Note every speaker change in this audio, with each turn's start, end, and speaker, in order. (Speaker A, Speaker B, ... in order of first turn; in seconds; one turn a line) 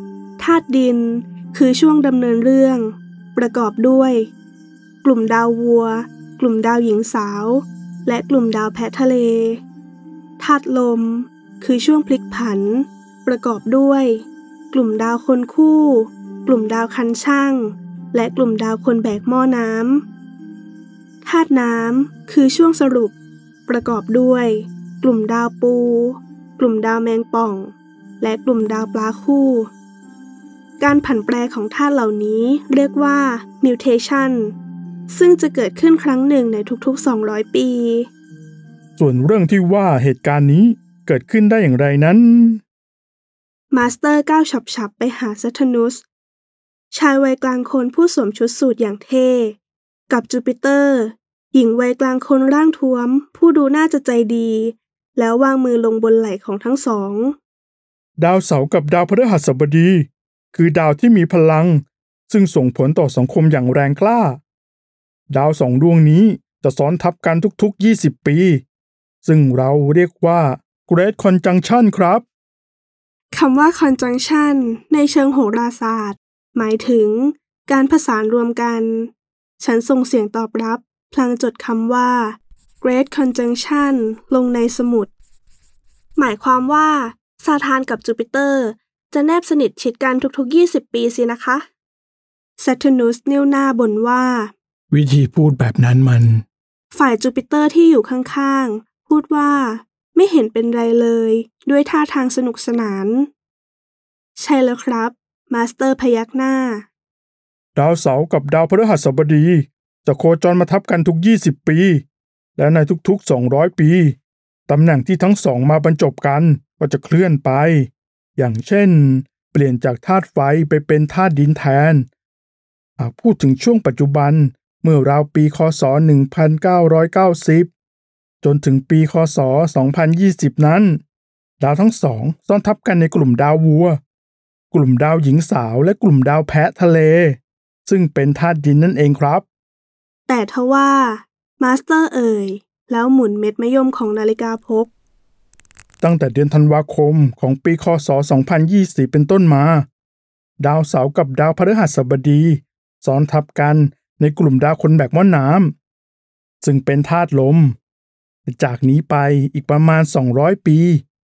Speaker A: 0.4-4.3
Speaker A: 5.0-9.6
Speaker A: 10.4-20.1
Speaker A: 21.2-23.1
Speaker A: 23.7-29.7
Speaker A: 30.8-34.5
Speaker A: 35.1-38.1
Speaker B: 39.0-42.6
Speaker A: 43.7-46.0
Speaker A: 46.9-49.6
Speaker A: 50.1-57.4
Speaker B: 58.2-64.4
Speaker B: 65.3-68.6
Speaker B: 69.2-72.2
Speaker A: 73.3-85.1
Speaker A: 86.2-91.7
Speaker A: 92.6-94.5
Speaker B: 94.9-96.4
Speaker A: 96.9-103.3
Speaker A: 104.4-106.9
Speaker B: 107.8-112.0
Speaker B: 112.6-114.2
Speaker B: 114.7-122.1
Speaker B: 123.0-127.7
Speaker B: 128.4-131.0
Speaker B: 131.6-134.0
Speaker B: 134.7-139.4
Speaker A: 140.3-144.9
Speaker B: 146.0-149.9
Speaker B: 150.6-155.7
Speaker B: 156.6-157.8
Speaker B: 158.5-161.0